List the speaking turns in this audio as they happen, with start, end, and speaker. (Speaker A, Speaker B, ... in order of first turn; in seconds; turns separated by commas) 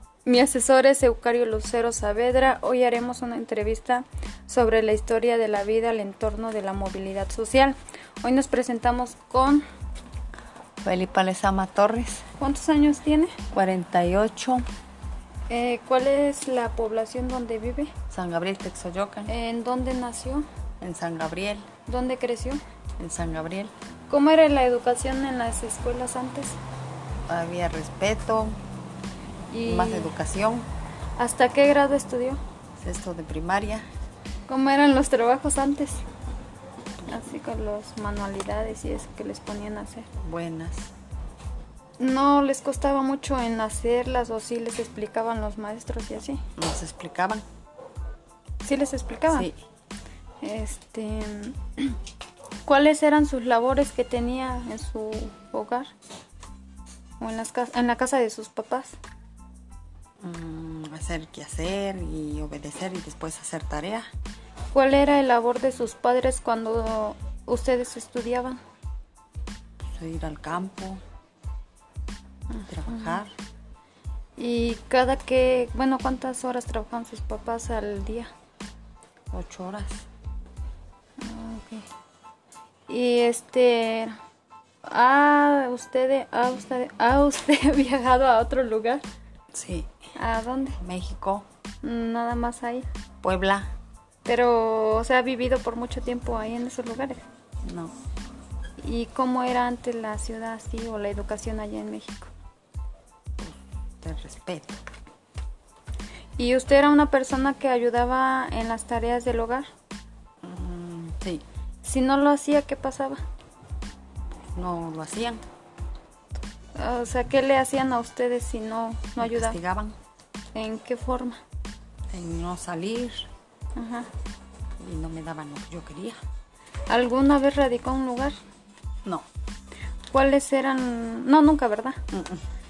Speaker A: 0.2-9.6, Speaker B: 10.8-12.2, Speaker A: 12.4-13.4, Speaker B: 13.5-14.6, Speaker A: 15.5-17.9, Speaker B: 18.1-19.3, Speaker A: 19.3-20.4, Speaker B: 20.8-21.7, Speaker A: 21.9-22.6, Speaker B: 23.0-23.7, Speaker A: 24.1-26.6, Speaker B: 27.3-28.6, Speaker A: 29.5-30.1, Speaker B: 29.6-30.7, Speaker A: 31.2-32.4, Speaker B: 32.8-33.9, Speaker A: 34.5-36.0, Speaker A: 37.0-40.1, Speaker B: 40.2-40.9, Speaker A: 42.0-46.4, Speaker B: 46.5-47.4, Speaker A: 48.6-49.5, Speaker B: 49.3-49.5, Speaker A: 50.4-52.0, Speaker A: 52.6-55.9, Speaker A: 57.2-59.0, Speaker B: 60.2-64.1, Speaker A: 64.7-68.6, Speaker B: 69.8-71.0, Speaker A: 72.5-73.2, Speaker B: 72.7-73.3, Speaker A: 74.4-78.3, Speaker B: 79.3-80.0, Speaker A: 81.2-81.9, Speaker A: 82.9-84.2, Speaker A: 84.8-89.0, Speaker B: 89.5-89.9, Speaker A: 90.2-90.8, Speaker B: 90.8-91.5, Speaker A: 91.8-92.9, Speaker B: 93.2-93.7, Speaker A: 94.2-97.2, Speaker B: 97.6-97.9, Speaker A: 98.8-102.3, Speaker B: 103.4-104.8, Speaker A: 106.4-109.7, Speaker B: 110.4-111.4, Speaker A: 111.8-113.2, Speaker B: 114.5-115.4, Speaker A: 116.8-119.6, Speaker B: 119.2-120.0, Speaker A: 120.5-121.4, Speaker B: 122.1-123.3, Speaker A: 123.7-124.1, Speaker B: 124.8-126.2, Speaker A: 126.9-128.4, Speaker A: 130.1-132.0, Speaker B: 132.1-132.4